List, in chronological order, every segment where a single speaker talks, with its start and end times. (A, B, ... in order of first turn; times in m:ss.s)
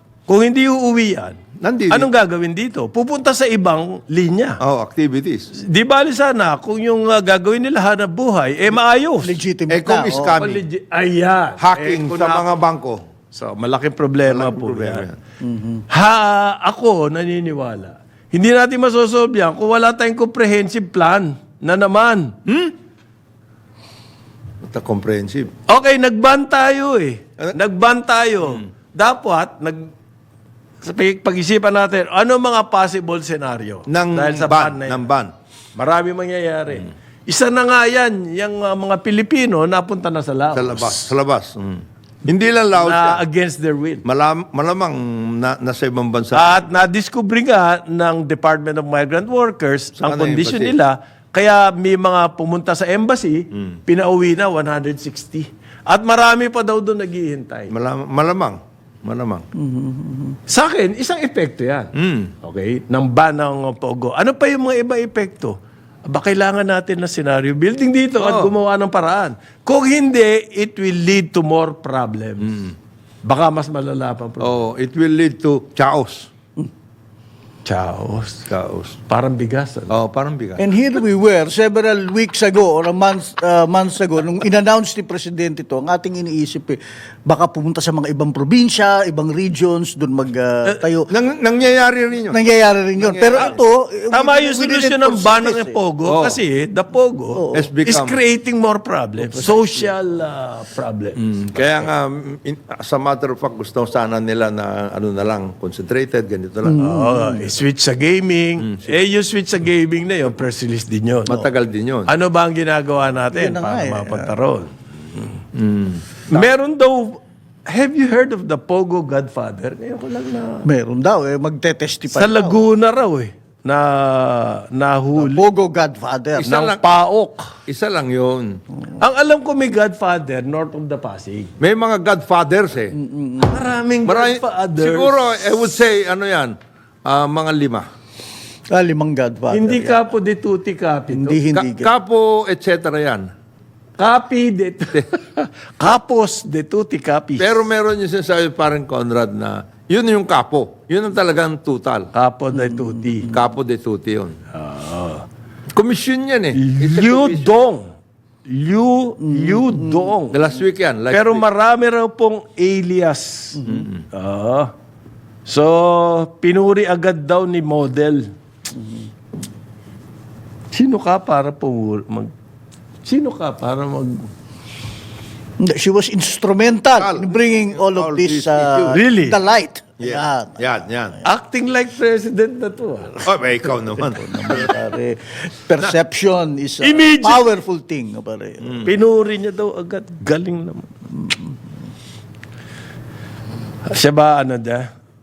0:00.3-0:01.4 A
0:01.6-0:02.1 B
0:01.9-0:04.6 A
0:04.6-0:05.5 B
0:05.6-0:09.3 A
0:09.2-0:10.4 C
0:09.7-0:10.6 B
0:10.4-0:12.6 A
0:11.6-0:13.0 B
0:13.3-0:15.1 A
0:14.3-0:15.2 B
0:15.4-0:15.8 C
0:15.9-0:22.3 A
0:22.4-0:22.7 B
0:24.6-0:25.5 B
0:25.7-0:29.9 A
0:30.8-0:35.1 A
0:33.9-0:35.3 B
0:35.8-0:41.1 A
0:40.5-0:43.2 B
0:42.8-0:44.0 A
0:44.0-0:46.6 B
0:46.3-0:57.7 A
0:50.0-0:50.8 B
0:57.7-0:59.4 B
0:59.6-1:00.4 C
1:00.5-1:01.9 A
1:02.0-1:02.3 B
1:02.4-1:05.6 A
1:06.1-1:12.6 A
1:08.2-1:08.5 B
1:13.2-1:14.6 A
1:14.4-1:16.3 B
1:17.6-1:18.4 A
1:18.5-1:19.0 B
1:19.1-1:19.9 A
1:19.9-1:20.6 B
1:20.6-1:31.1 C
1:31.1-1:32.4 B
1:32.3-1:35.8 C
1:33.0-1:33.6 B
1:34.1-1:41.2 A
1:36.0-1:36.4 B
1:37.4-1:37.7 C
1:37.5-1:38.2 B
1:39.3-1:39.8 C
1:41.2-1:46.8 B
1:46.6-1:47.5 C
1:46.8-1:51.4 A
1:48.6-1:48.9 B
1:51.2-1:52.1 B
1:52.1-1:55.3 A
1:53.3-1:54.3 C
1:55.5-1:56.4 B
1:56.3-2:00.7 A
2:00.6-2:02.6 C
2:02.1-2:05.4 A
2:05.2-2:06.5 C
2:06.4-2:06.9 B
2:06.4-2:07.5 A
2:07.7-2:08.6 B
2:09.0-2:11.5 A
2:11.6-2:12.9 B
2:12.9-2:13.6 C
2:13.4-2:15.2 A
2:14.0-2:17.9 B
2:18.7-2:20.1 C
2:19.5-2:21.4 A
2:21.1-2:21.9 C
2:21.5-2:23.3 B
2:24.0-2:27.6 A
2:27.4-2:32.1 B
2:32.1-2:33.4 A
2:32.5-2:33.2 C
2:33.2-2:34.4 B
2:34.5-2:35.2 A
2:35.7-2:37.5 B
2:36.6-2:37.8 A
2:38.4-2:40.4 A
2:39.2-2:40.1 C
2:40.3-2:41.4 B
2:41.1-2:43.6 A
2:43.6-2:43.9 C
2:43.6-2:44.0 B
2:44.1-2:44.7 A
2:45.4-2:48.3 A
2:48.7-2:49.0 C
2:50.7-2:52.3 A
2:53.0-2:54.2 A
2:55.6-3:00.7 C
2:57.0-2:59.0 B
2:58.9-2:59.4 A
3:00.0-3:01.2 B
3:01.2-3:03.3 A
3:03.2-3:04.7 B
3:03.8-3:08.8 C
3:06.8-3:07.4 A
3:08.6-3:08.9 B
3:08.8-3:10.9 A
3:13.8-3:14.9 A